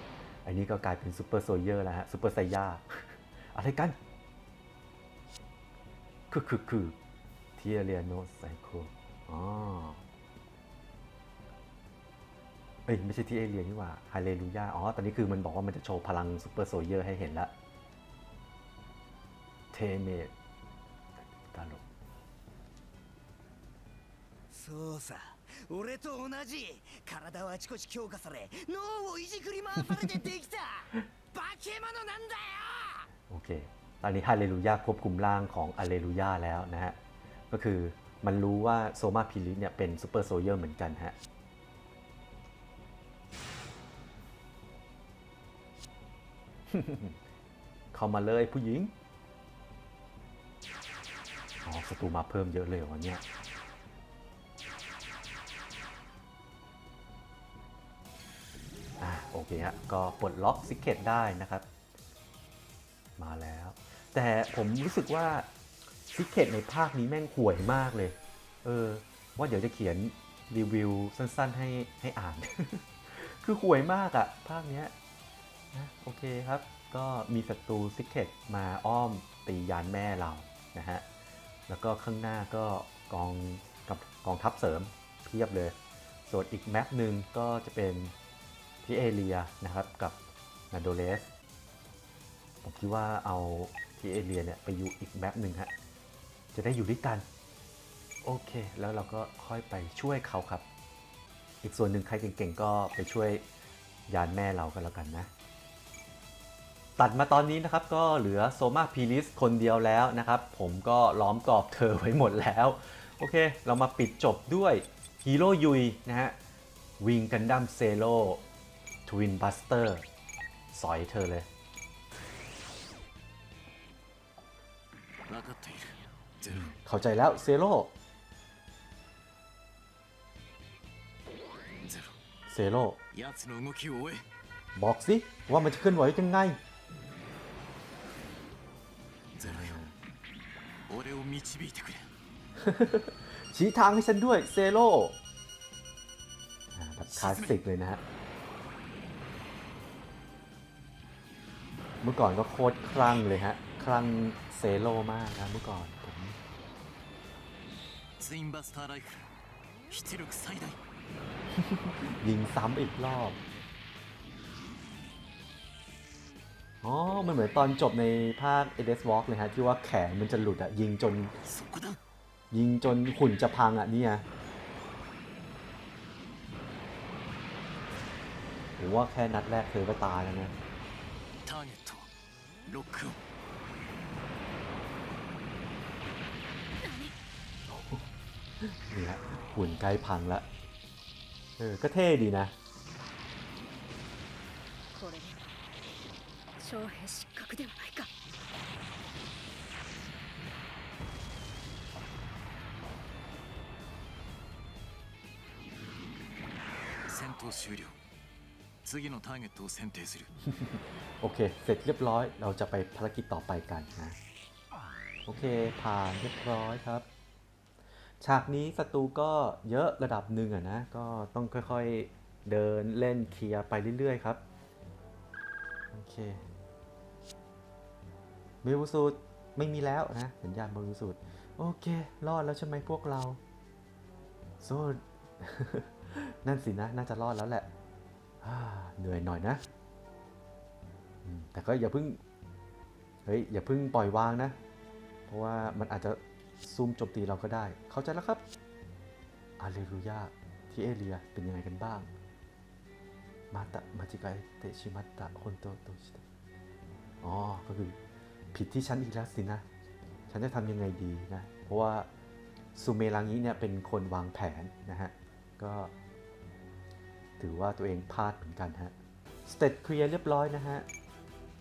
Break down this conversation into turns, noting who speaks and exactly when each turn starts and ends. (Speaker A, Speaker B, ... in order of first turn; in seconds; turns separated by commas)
Speaker A: 0.5-4.0, Speaker A: 6.3-7.0, Speaker A: 7.6-10.0, Speaker A: 12.9-17.5, Speaker A: 19.7-20.3, Speaker A: 21.2-21.8, Speaker B: 24.5-33.1, Speaker A: 33.3-37.0, Speaker A: 37.5-41.2, Speaker A: 46.7-47.2, Speaker A: 47.9-48.9, Speaker A: 51.6-53.2, Speaker A: 59.0-61.7, Speaker A: 63.2-65.5, Speaker A: 66.1-74.9, Speaker A: 75.7-81.0, Speaker A: 81.7-85.8, Speaker A: 86.3-88.1, Speaker A: 88.8-90.2, Speaker A: 90.7-91.3, Speaker A: 92.6-95.7, Speaker A: 96.5-97.2, Speaker A: 98.2-100.6, Speaker A: 101.6-103.4, Speaker A: 104.1-105.3, Speaker A: 107.0-116.4, Speaker A: 117.0-118.4, Speaker A: 119.1-120.0, Speaker A: 120.7-121.5, Speaker C: 125.3-126.7, Speaker A: 126.5-127.9, Speaker C: 131.9-132.2, Speaker A: 132.5-133.0, Speaker C: 133.1-134.3, Speaker A: 134.8-136.6, Speaker C: 139.4-139.8, Speaker A: 139.4-139.9, Speaker C: 140.9-142.1, Speaker A: 142.6-145.2, Speaker A: 146.7-148.0, Speaker C: 147.1-147.6, Speaker A: 152.0-156.4, Speaker C: 158.2-159.3, Speaker C: 159.9-160.8, Speaker A: 161.6-163.4, Speaker A: 166.8-171.3, Speaker C: 171.4-172.0, Speaker A: 172.5-174.2, Speaker A: 178.8-180.5, Speaker C: 181.4-182.1, Speaker C: 182.7-183.2, Speaker D: 186.8-187.1, Speaker A: 187.7-188.0, Speaker A: 188.6-190.5, Speaker A: 191.6-192.5, Speaker D: 194.9-195.4, Speaker D: 196.6-198.1, Speaker C: 207.1-207.9, Speaker C: 208.8-210.3, Speaker A: 210.4-214.2, Speaker A: 215.3-217.1, Speaker A: 218.2-224.4, Speaker A: 225.9-226.5, Speaker A: 228.6-233.4, Speaker A: 234.6-237.7, Speaker A: 238.4-239.6, Speaker A: 241.2-242.2, Speaker A: 243.2-244.6, Speaker A: 245.3-248.4, Speaker A: 249.6-252.1, Speaker A: 253.5-256.2, Speaker A: 257.2-258.0, Speaker A: 258.5-259.6, Speaker A: 260.3-262.1, Speaker A: 262.8-265.9, Speaker A: 267.4-268.9, Speaker A: 269.5-270.9